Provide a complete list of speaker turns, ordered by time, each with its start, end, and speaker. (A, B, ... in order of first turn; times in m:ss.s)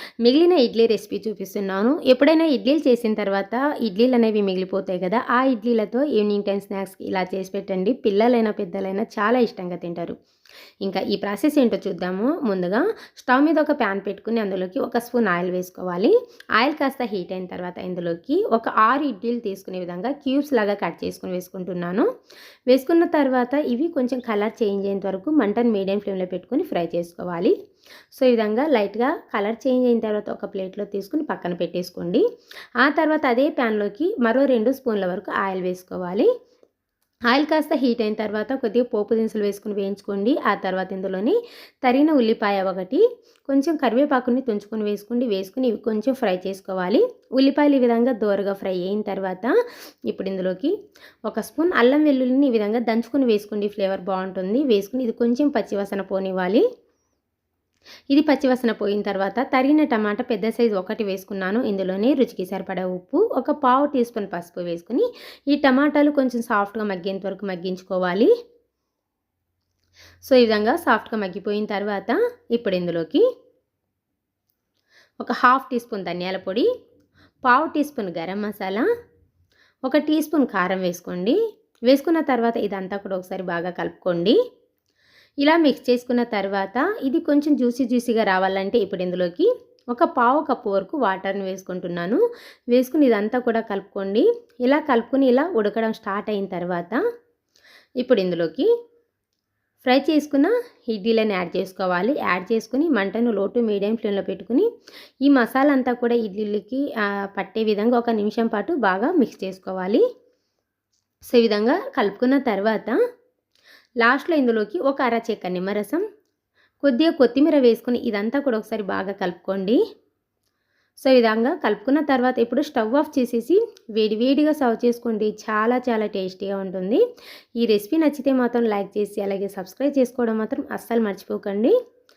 0:00.2-0:10.1 A
0:10.8-0:22.1 A
0:22.7-0:27.5 A
0:28.1-0:32.2 A
0:32.8-0:36.3 A
0:37.3-0:49.5 A
0:50.1-0:50.7 A
0:51.3-0:56.6 A
0:58.1-1:08.3 A
1:10.2-1:13.2 A
1:15.2-1:16.7 A
1:17.4-1:18.9 A
1:19.9-1:21.4 A
1:21.9-1:24.4 A
1:25.4-1:32.2 A
1:32.7-1:37.0 A
1:38.0-1:38.7 A
1:39.8-1:44.7 A
1:45.2-1:50.0 A
1:51.3-1:53.0 A
1:54.0-1:56.0 A
1:56.8-1:59.8 A
2:01.0-2:07.0 A
2:07.6-2:11.7 A